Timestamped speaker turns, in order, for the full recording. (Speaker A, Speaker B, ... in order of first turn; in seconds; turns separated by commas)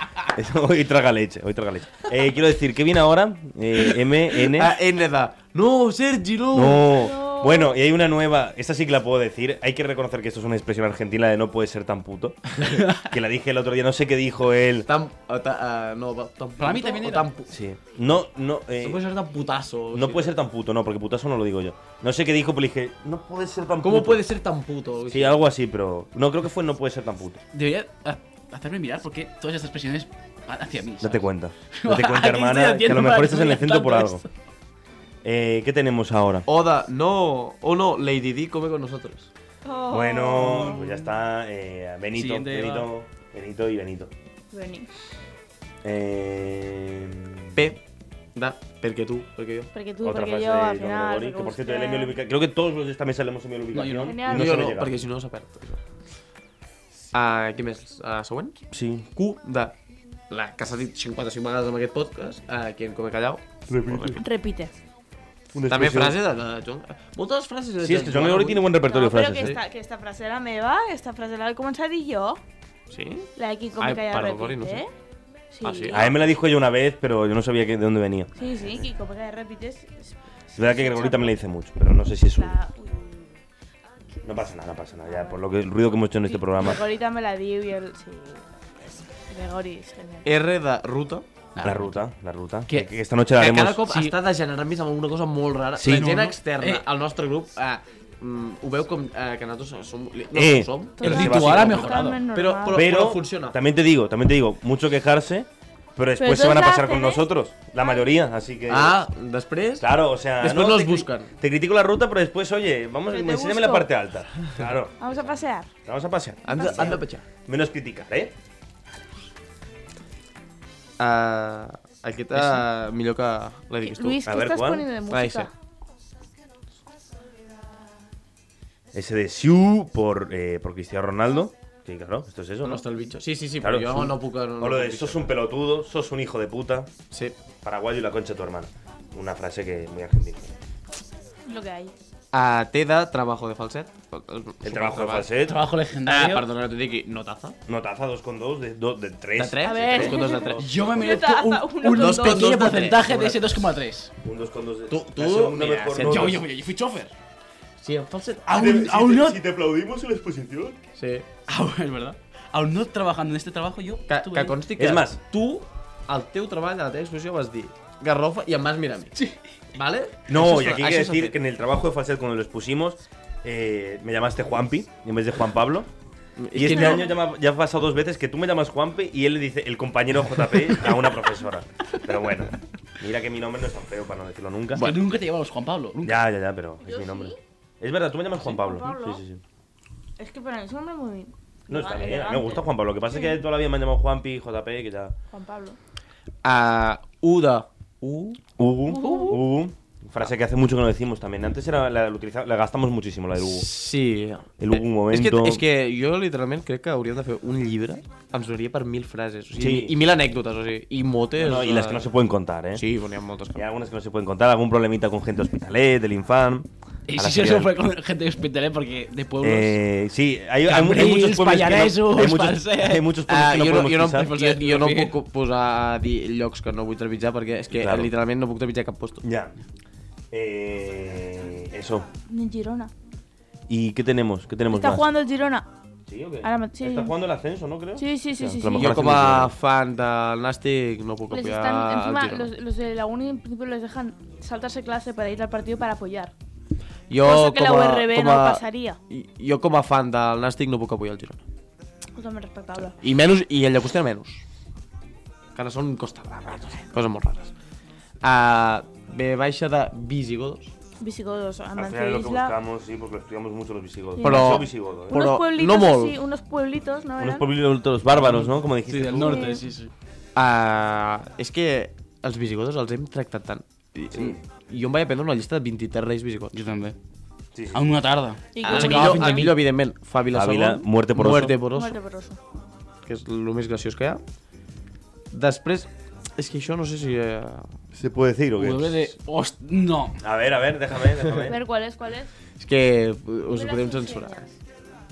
Speaker A: 0.3-4.8, Speaker B: 4.3-7.0, Speaker A: 6.5-14.9, Speaker C: 6.8-7.8, Speaker B: 14.9-17.5, Speaker D: 16.6-17.3, Speaker A: 17.5-19.0, Speaker B: 18.8-20.3, Speaker A: 19.9-24.2, Speaker B: 23.8-25.4, Speaker A: 25.1-27.4, Speaker D: 27.5-34.3, Speaker A: 31.0-34.2, Speaker A: 35.2-36.5, Speaker B: 36.5-39.3, Speaker C: 39.6-41.0, Speaker A: 39.9-44.1, Speaker D: 42.1-42.9, Speaker C: 44.5-44.9, Speaker A: 45.8-47.6, Speaker B: 47.5-47.8, Speaker B: 48.3-49.7, Speaker C: 49.7-52.2, Speaker A: 50.0-54.9, Speaker D: 53.7-54.1, Speaker C: 54.0-54.5, Speaker B: 54.3-55.8, Speaker B: 57.1-58.6, Speaker A: 58.7-59.1, Speaker B: 59.1-59.8, Speaker B: 60.3-64.2, Speaker A: 63.7-64.2, Speaker C: 64.2-64.7, Speaker A: 65.5-66.2, Speaker B: 65.7-68.7, Speaker A: 67.8-69.6, Speaker C: 68.9-72.4, Speaker B: 72.9-74.8, Speaker C: 73.3-74.9, Speaker C: 75.5-76.2, Speaker B: 75.6-76.0, Speaker A: 75.9-78.3, Speaker C: 78.3-81.4, Speaker A: 80.5-82.6, Speaker C: 82.3-83.3, Speaker A: 84.2-86.8, Speaker C: 85.0-85.4, Speaker C: 86.3-88.4, Speaker C: 89.1-90.3, Speaker B: 90.2-91.3, Speaker D: 91.5-92.0, Speaker A: 91.6-93.8, Speaker B: 93.4-103.6, Speaker D: 93.8-94.2, Speaker A: 95.7-96.3, Speaker D: 95.9-96.8, Speaker A: 100.3-102.0, Speaker C: 101.0-102.9, Speaker D: 101.0-102.2, Speaker A: 102.7-109.0, Speaker C: 106.2-107.3, Speaker B: 108.7-111.3, Speaker A: 109.8-115.3, Speaker C: 113.1-113.9, Speaker C: 115.0-115.7, Speaker A: 115.8-118.3, Speaker B: 116.4-117.2, Speaker B: 121.0-124.2, Speaker C: 123.8-125.5, Speaker A: 124.2-124.9, Speaker B: 125.1-125.5, Speaker A: 128.9-132.8, Speaker B: 132.6-135.3, Speaker A: 133.6-136.9, Speaker B: 137.1-137.3, Speaker A: 137.6-140.6, Speaker C: 141.4-141.9, Speaker B: 142.3-145.3, Speaker A: 144.6-145.6, Speaker D: 145.4-146.5, Speaker B: 146.0-147.6, Speaker A: 147.7-150.8, Speaker B: 149.3-150.7, Speaker C: 149.6-152.7, Speaker D: 150.6-154.1, Speaker B: 151.9-153.7, Speaker A: 154.2-156.4, Speaker B: 154.9-156.4, Speaker D: 156.0-157.1, Speaker B: 157.8-158.5, Speaker D: 158.5-159.4, Speaker A: 158.5-160.8, Speaker B: 160.9-161.3, Speaker D: 161.5-164.6, Speaker B: 164.1-169.1, Speaker A: 164.8-165.2, Speaker B: 169.7-171.4, Speaker A: 170.3-175.9, Speaker B: 176.4-177.1, Speaker A: 176.5-184.9, Speaker C: 176.6-177.2, Speaker D: 184.8-186.2, Speaker A: 186.0-189.4, Speaker C: 186.8-187.4, Speaker C: 188.4-189.2, Speaker C: 190.2-193.4, Speaker A: 191.7-195.1, Speaker C: 195.3-195.8, Speaker B: 196.4-198.4, Speaker A: 198.6-203.7, Speaker C: 198.9-199.4, Speaker B: 203.4-212.1, Speaker A: 204.6-205.6, Speaker A: 209.6-210.0, Speaker A: 211.4-212.8, Speaker B: 212.7-213.7, Speaker A: 213.5-217.7, Speaker D: 217.1-219.8, Speaker A: 219.4-224.3, Speaker D: 220.7-223.0, Speaker B: 223.2-229.2, Speaker D: 224.2-225.1, Speaker A: 227.7-228.1, Speaker A: 229.2-229.6, Speaker A: 230.3-232.1, Speaker C: 232.3-232.9, Speaker A: 233.7-235.1, Speaker C: 234.7-235.7, Speaker A: 236.1-239.5, Speaker C: 236.4-237.1, Speaker C: 238.0-239.1, Speaker B: 238.7-242.5, Speaker C: 241.3-246.3, Speaker B: 247.1-251.4, Speaker C: 247.2-249.0, Speaker C: 252.1-252.9, Speaker B: 253.0-254.4, Speaker B: 255.5-257.5, Speaker B: 258.2-260.7, Speaker C: 261.0-262.6, Speaker A: 261.8-265.2, Speaker C: 264.1-267.5, Speaker B: 264.2-266.2, Speaker A: 267.2-269.6, Speaker D: 268.2-269.9, Speaker C: 269.1-269.6, Speaker B: 270.3-276.6, Speaker A: 274.1-274.4, Speaker D: 276.5-276.9, Speaker A: 277.5-277.9, Speaker D: 277.7-279.6, Speaker C: 278.5-279.5, Speaker B: 278.6-281.9, Speaker A: 280.3-281.6, Speaker C: 281.7-282.4, Speaker B: 283.1-284.2, Speaker B: 285.3-287.8, Speaker A: 287.9-289.1, Speaker D: 288.6-290.2, Speaker A: 290.2-291.6, Speaker C: 291.4-292.3, Speaker B: 292.6-294.4, Speaker C: 293.5-294.5